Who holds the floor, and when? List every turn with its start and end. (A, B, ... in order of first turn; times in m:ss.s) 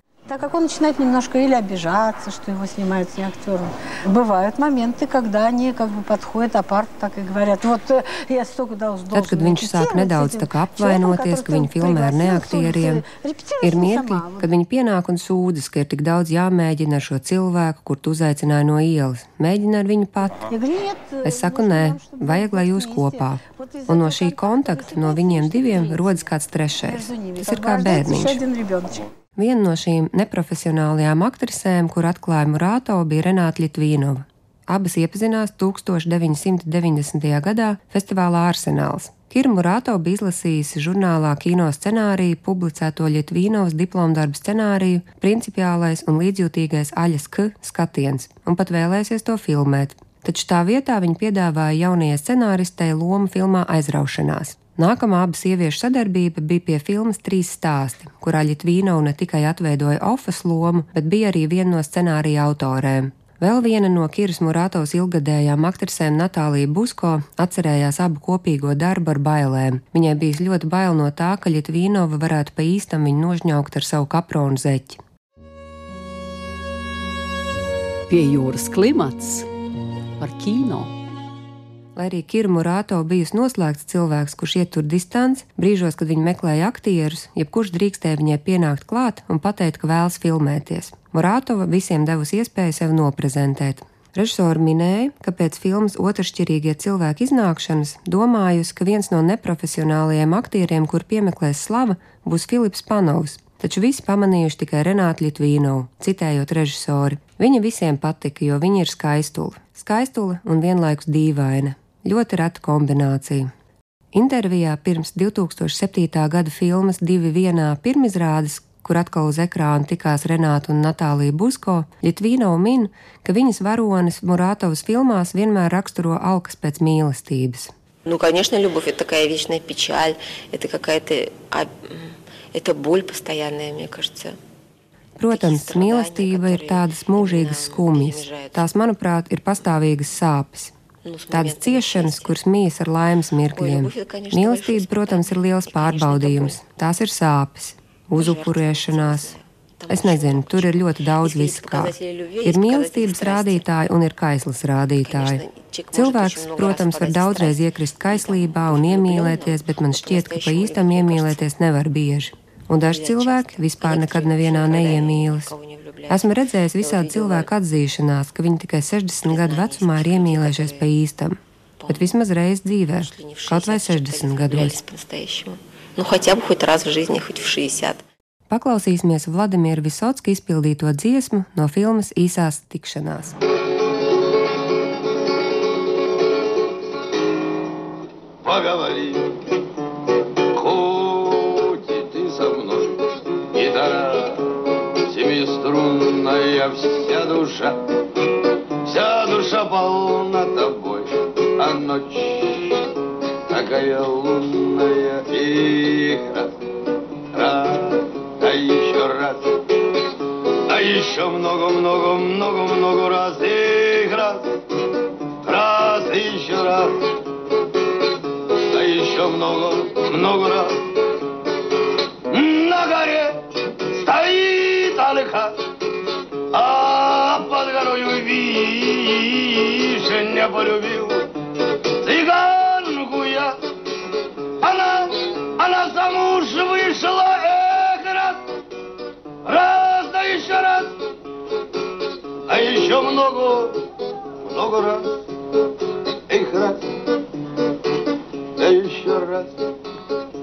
0:00.3-0:14.5 A
0:09.1-0:13.0 B
0:13.6-0:20.5 B
0:20.4-0:26.3 A
0:21.2-0:28.4 B
0:26.8-0:29.1 A
0:29.4-1:15.0 B
1:18.1-1:19.5 C
1:20.2-1:20.9 C
1:22.0-1:53.5 B
1:54.1-2:07.7 B
2:08.0-2:14.4 D
2:15.2-2:20.7 B
2:15.3-2:18.7 D
2:21.0-2:22.4 D
2:21.3-2:29.3 B
2:23.5-2:26.6 D
2:28.2-2:33.7 D
2:29.9-2:45.5 B
2:35.0-2:41.4 D
2:42.8-2:47.5 D
2:46.1-2:54.8 B
2:49.2-2:50.9 D
2:51.8-2:52.1 D
2:52.9-2:58.0 D
2:58.5-3:03.4 B
3:08.4-3:09.3 E
3:10.5-3:13.0 E
3:13.5-3:14.4 E
3:15.1-3:17.8 E
3:18.8-3:22.8 E
3:23.5-3:26.5 E
3:27.3-3:29.4 E
3:30.7-3:34.4 E
3:35.4-3:36.9 E
3:38.7-3:40.8 E
3:42.3-3:45.5 E
3:46.5-3:51.2 E
3:52.0-3:53.6 E
3:54.6-3:58.4 E
3:59.4-4:00.9 E
4:02.5-4:03.7 E
4:04.5-4:05.1 E
4:06.3-4:06.8 E
4:08.6-4:09.5 E